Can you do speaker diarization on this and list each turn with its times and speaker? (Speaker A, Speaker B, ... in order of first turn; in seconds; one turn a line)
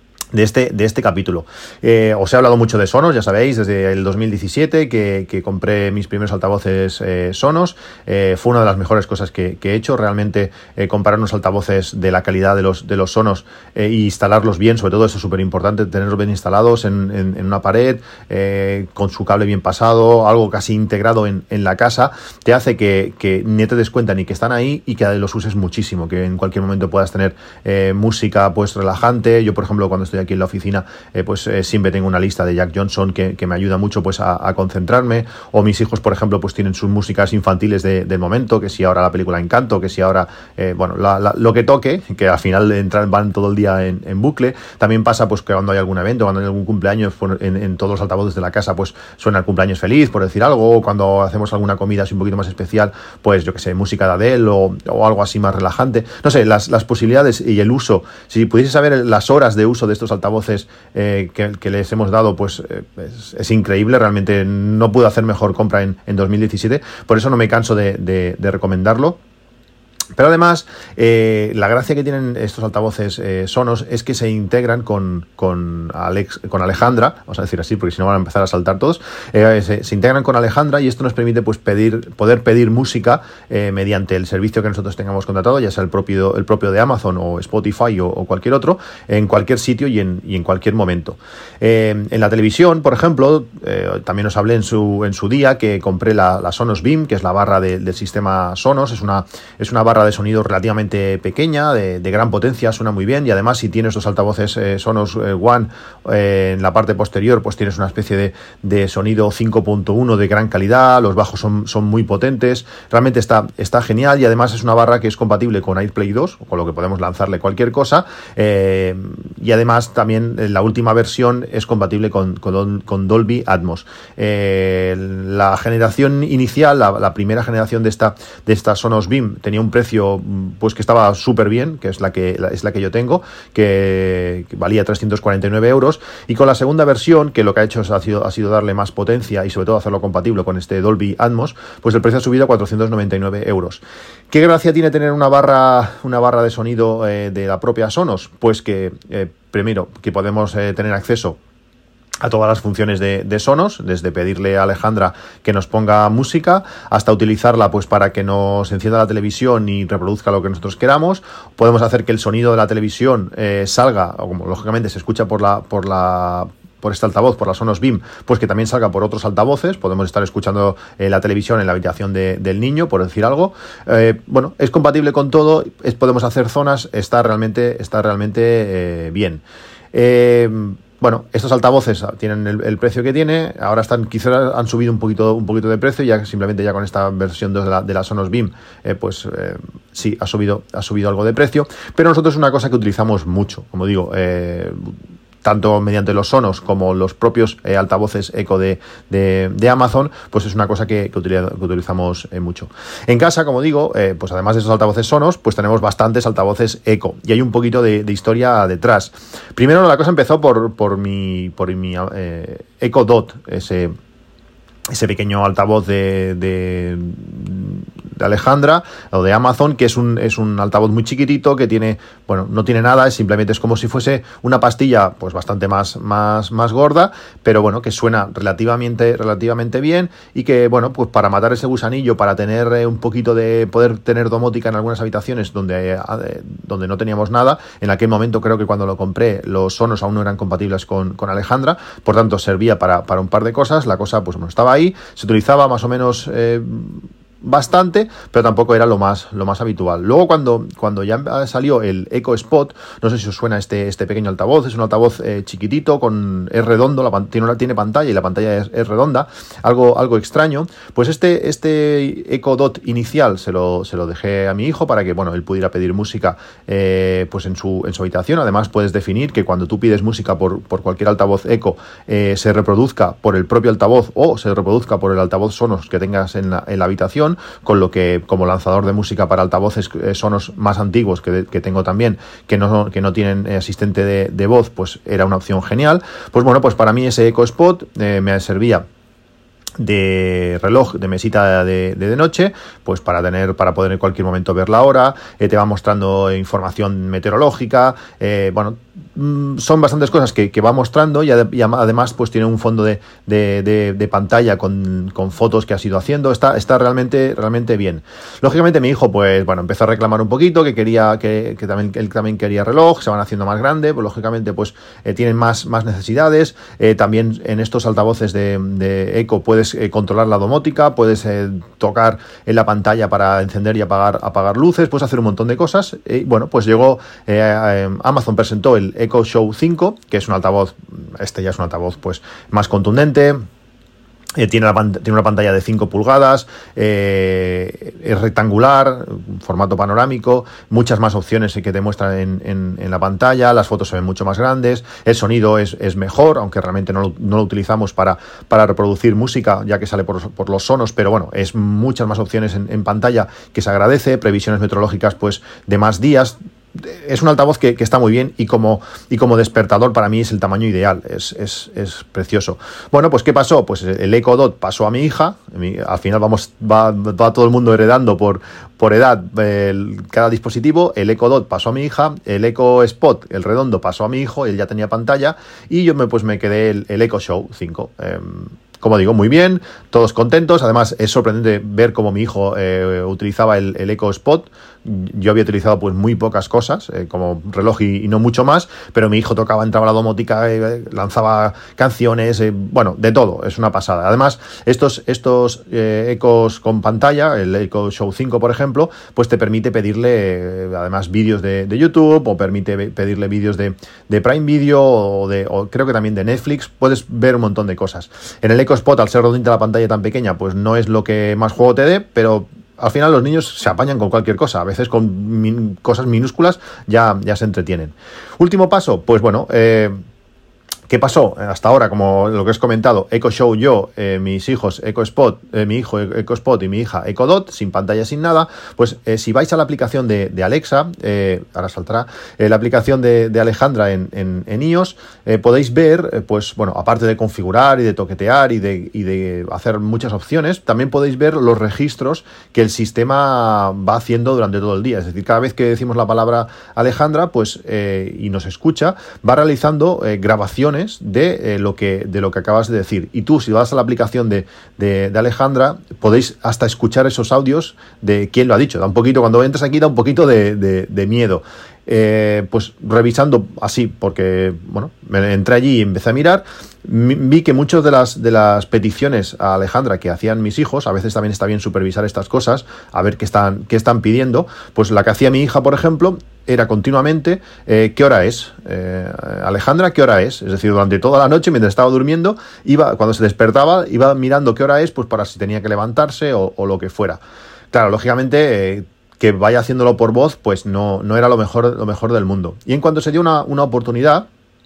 Speaker A: 0.3-69.2
Speaker A: 70.2-151.4
Speaker A: 152.2-194.9
Speaker A: 195.4-213.9
Speaker A: 214.9-288.9
Speaker A: 289.8-333.4
Speaker A: 334.4-420.0
Speaker A: 420.9-487.2
Speaker A: 487.7-494.3